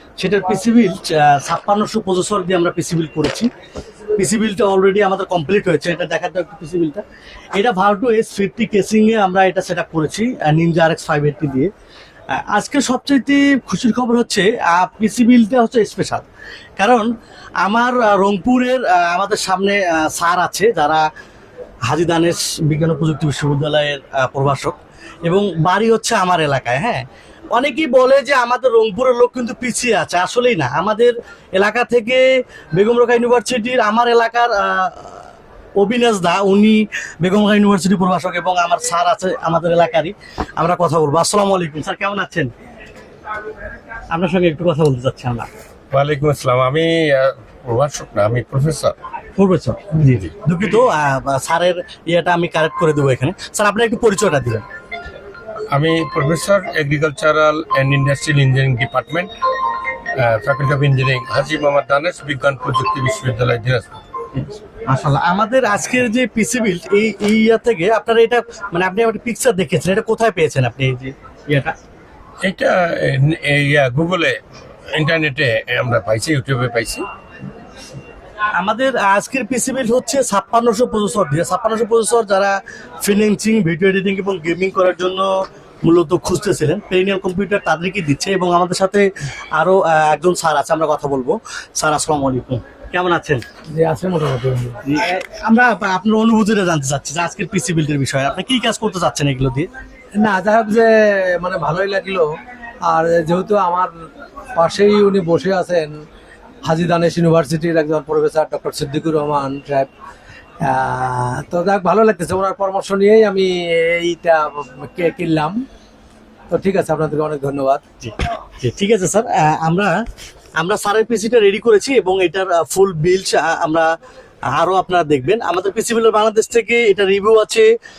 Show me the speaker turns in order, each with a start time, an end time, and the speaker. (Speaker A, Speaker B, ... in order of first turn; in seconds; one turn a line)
Speaker A: 0.2-3.5
Speaker A: 4.1-7.0
Speaker A: 7.6-11.7
Speaker A: 12.3-16.2
Speaker A: 16.8-17.1
Speaker A: 17.6-21.0
Speaker A: 21.9-27.0
Speaker A: 27.5-35.2
Speaker A: 35.8-42.5
Speaker A: 44.1-45.5
Speaker B: 45.9-49.0
Speaker A: 49.4-54.6
Speaker B: 55.7-59.3
Speaker B: 60.2-64.0
Speaker A: 64.9-71.7
Speaker B: 72.4-74.4
Speaker B: 74.9-77.0
Speaker A: 78.6-85.3
Speaker A: 85.8-93.4
Speaker C: 93.7-94.8
Speaker A: 94.8-99.7
Speaker C: 100.2-102.3
Speaker C: 102.8-103.9
Speaker C: 104.5-106.0
Speaker C: 106.6-109.9
Speaker C: 110.6-115.6
Speaker C: 116.5-117.8
Speaker A: 118.0-120.0
Speaker A: 120.6-123.9
Speaker A: 124.5-127.7